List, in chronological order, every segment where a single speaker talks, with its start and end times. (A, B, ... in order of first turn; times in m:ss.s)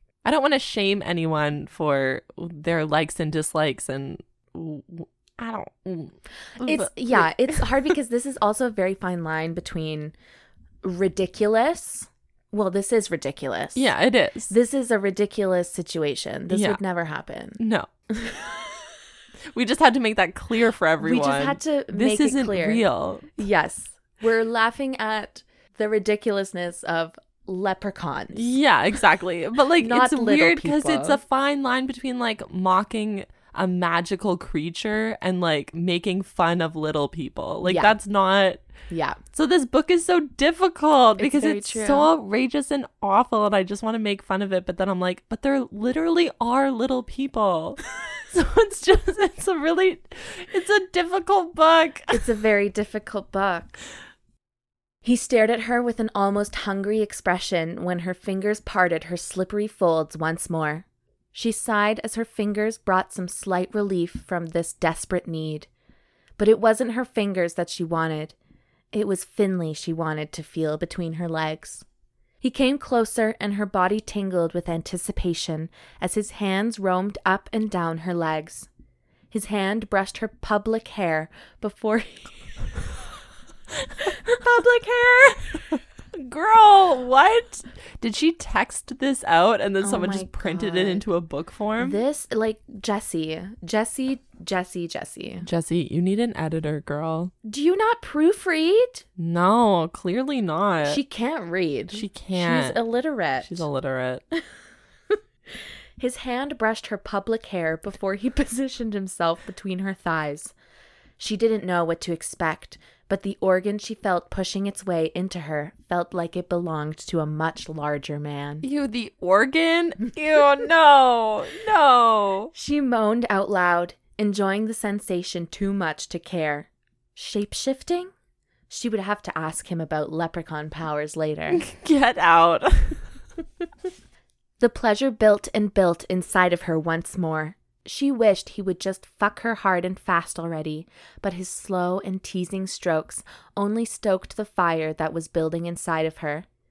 0:00.2-0:07.6 A
0:06.6-0:10.1 B
0:10.8-0:13.9 B
0:13.7-0:14.5 A
0:14.5-0:17.6 B
0:16.5-0:16.8 A
0:17.6-0:17.9 A
0:18.1-0:18.4 B
0:19.5-0:23.3 A
0:21.0-0:22.8 B
0:23.4-0:28.5 B
0:28.3-0:38.7 A
0:29.8-0:31.2 B
0:37.6-0:38.0 B
0:38.9-0:39.2 B
0:39.3-0:52.2 A
0:41.2-0:42.1 B
0:52.1-0:53.8 B
0:55.0-1:05.7 B
1:06.4-1:08.4 B
1:08.9-1:11.8 B
1:12.4-1:18.7 B
1:19.3-1:22.7 B
1:24.0-1:25.7 B
1:26.1-1:32.0 A
1:29.8-1:31.0 B
1:31.8-1:35.4 B
1:35.4-1:37.3 A
1:37.4-1:39.0 B
1:39.2-1:41.0 A
1:40.8-1:43.7 B
1:41.9-1:42.8 A
1:43.4-1:44.2 A
1:45.1-1:50.5 B
1:51.2-1:58.6 B
1:58.6-2:02.5 A
2:02.5-2:08.1 B
2:08.7-2:11.6 B
2:11.5-2:13.0 A
2:14.6-2:26.5 B